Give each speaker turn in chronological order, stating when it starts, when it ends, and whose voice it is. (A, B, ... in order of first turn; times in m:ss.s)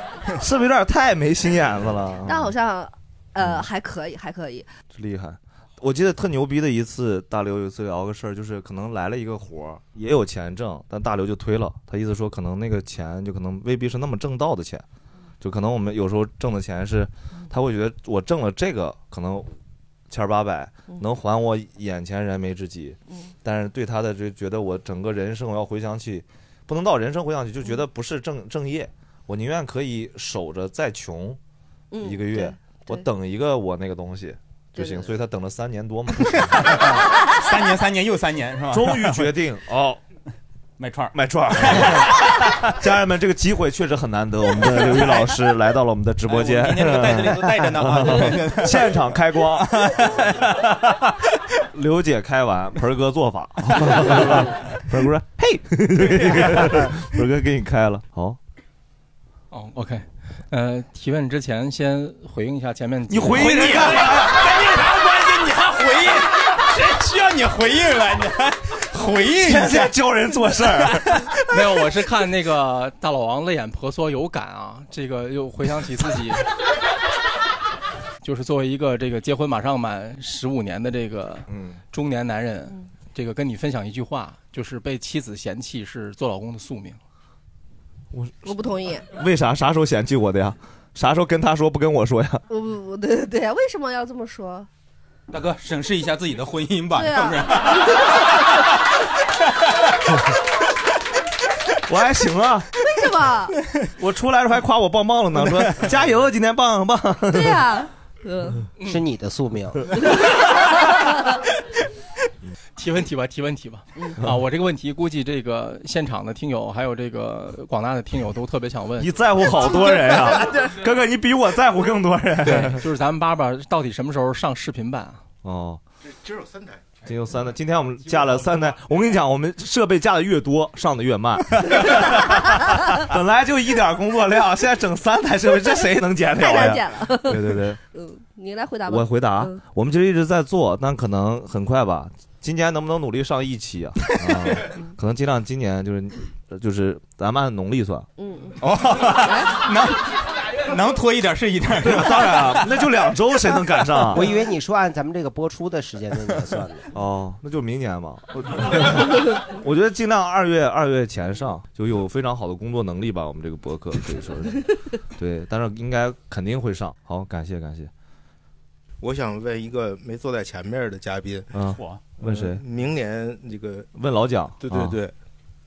0:00.4-0:02.5 A
0:02.3-0:04.7 B
0:03.4-0:03.6 A
0:04.9-0:14.8 A
0:15.4-0:19.5 A
0:20.1-0:31.4 A
0:31.9-0:33.0 B
0:32.0-0:36.8 A
0:34.8-0:35.1 B
0:36.3-0:39.3 C
0:38.7-0:40.0 A
0:40.8-0:42.3 C
0:41.1-0:49.9 A
0:44.8-0:45.3 C
0:46.3-0:48.9 C
0:49.7-0:50.9 C
0:51.7-0:58.4 A
0:53.7-0:54.4 C
0:59.5-1:04.0 D
1:03.1-1:04.5 A
1:03.3-1:09.9 C
1:09.4-1:11.1 A
1:11.5-1:16.4 D
1:18.2-1:27.0 D
1:21.5-1:21.8 A
1:28.1-1:32.4 A
1:28.4-1:29.0 B
1:32.5-1:34.7 B
1:35.3-1:38.2 C
1:36.9-1:37.5 B
1:41.9-1:42.7 A
1:42.8-1:43.5 B
1:44.0-1:47.7 A
1:47.3-1:48.6 B
1:48.8-1:49.9 E
1:50.1-1:51.4 B
1:52.8-1:59.1 D
1:59.0-2:02.8 A
2:02.4-2:05.2 D
2:05.4-2:05.8 A
2:06.0-2:07.0 F
2:07.0-2:17.8 A
2:16.4-2:19.6 B
2:18.9-2:28.1 A
2:28.2-2:28.6 B
2:28.6-2:32.7 C
2:31.8-2:34.3 A
2:34.1-2:36.8 E
2:36.9-2:47.9 A
2:49.0-2:51.5 F
2:51.5-2:52.6 A
2:52.2-2:53.9 F
2:53.9-2:55.0 A
2:54.6-2:55.1 F